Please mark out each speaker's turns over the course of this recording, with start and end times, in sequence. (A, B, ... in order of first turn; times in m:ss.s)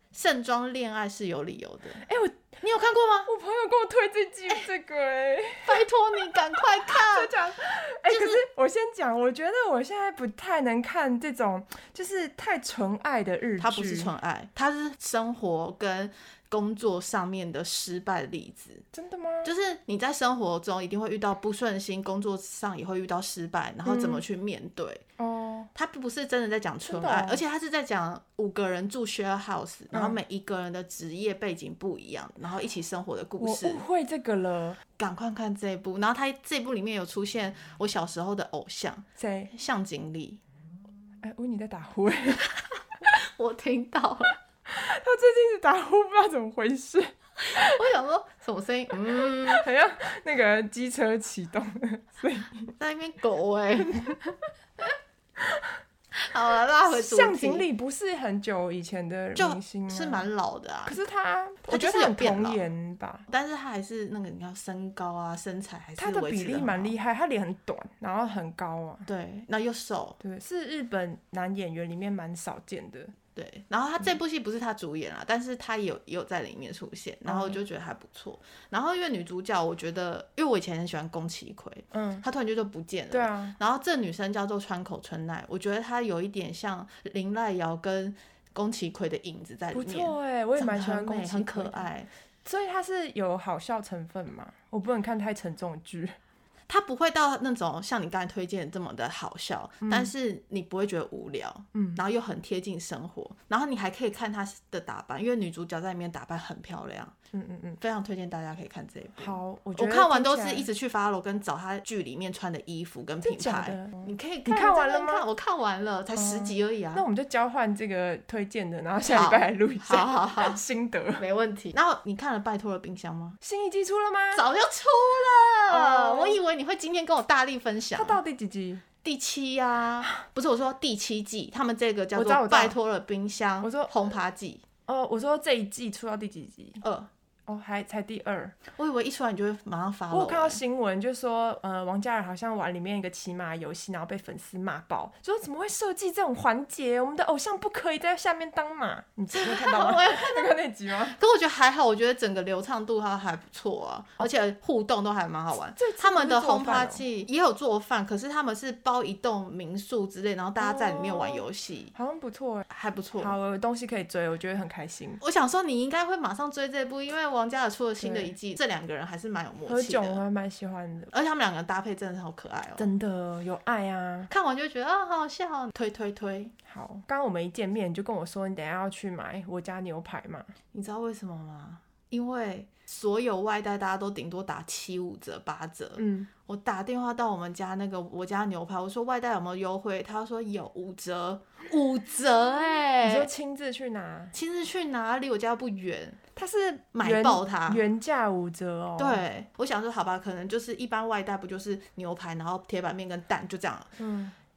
0:00.1-0:02.0 A
0:02.0-0:02.5 B
0:02.6-0:03.3 A
0:03.3-0:05.9 B
0:05.6-0:07.3 A
0:06.8-0:14.1 B
0:08.1-0:08.4 A
0:13.6-0:18.8 A
0:18.9-0:19.5 B
0:19.4-0:25.0 A
0:23.8-0:24.2 B
0:25.2-0:25.7 B
0:25.8-0:33.8 A
0:26.8-0:27.4 B
0:29.9-0:30.2 B
0:33.4-0:34.8 B
0:35.0-0:40.4 A
0:39.2-0:39.5 B
0:41.2-0:42.5 B
0:43.4-0:44.4 A
0:44.7-0:47.7 B
0:47.5-0:49.6 A
0:49.5-0:52.7 B
0:52.8-0:54.4 A
0:56.3-0:57.7 A
0:56.9-1:00.2 B
0:59.4-1:01.0 A
1:00.9-1:03.3 B
1:01.7-1:02.7 A
1:03.3-1:06.9 A
1:06.0-1:09.0 B
1:09.1-1:10.2 A
1:10.2-1:13.1 B
1:13.4-1:32.1 A
1:17.2-1:17.6 B
1:21.9-1:22.2 B
1:23.1-1:23.6 B
1:29.7-1:31.9 B
1:32.4-1:36.2 B
1:36.7-1:47.1 A
1:39.8-1:40.1 B
1:41.7-1:42.0 B
1:47.3-1:47.8 B
1:47.8-1:57.0 A
1:49.2-1:50.7 B
1:53.2-1:55.2 B
1:56.1-2:01.2 B
1:59.1-2:00.6 A
2:01.2-2:03.4 A
2:03.4-2:04.5 B
2:04.3-2:08.2 A
2:05.7-2:06.4 B
2:08.0-2:08.8 B
2:09.0-2:14.6 A
2:12.2-2:12.8 B
2:13.6-2:13.9 B
2:14.9-2:16.8 B
2:16.8-2:17.1 A
2:17.5-2:18.6 B
2:18.8-2:20.6 A
2:20.1-2:31.2 B
2:29.3-2:41.9 A
2:35.8-2:37.0 B
2:40.6-2:42.6 B
2:42.7-2:43.4 A
2:43.2-2:45.2 B
2:45.2-2:50.2 A
2:48.0-2:48.3 B
2:49.7-2:51.1 B
2:51.1-2:52.9 A
2:52.8-2:54.3 B
2:54.3-2:56.5 A
2:56.7-3:00.5 B
3:00.7-3:13.3 A
3:06.0-3:06.3 B
3:13.0-3:14.3 B
3:14.3-3:16.2 A
3:16.4-3:19.2 B
3:17.0-3:17.8 A
3:19.0-3:23.9 A
3:24.0-3:24.3 B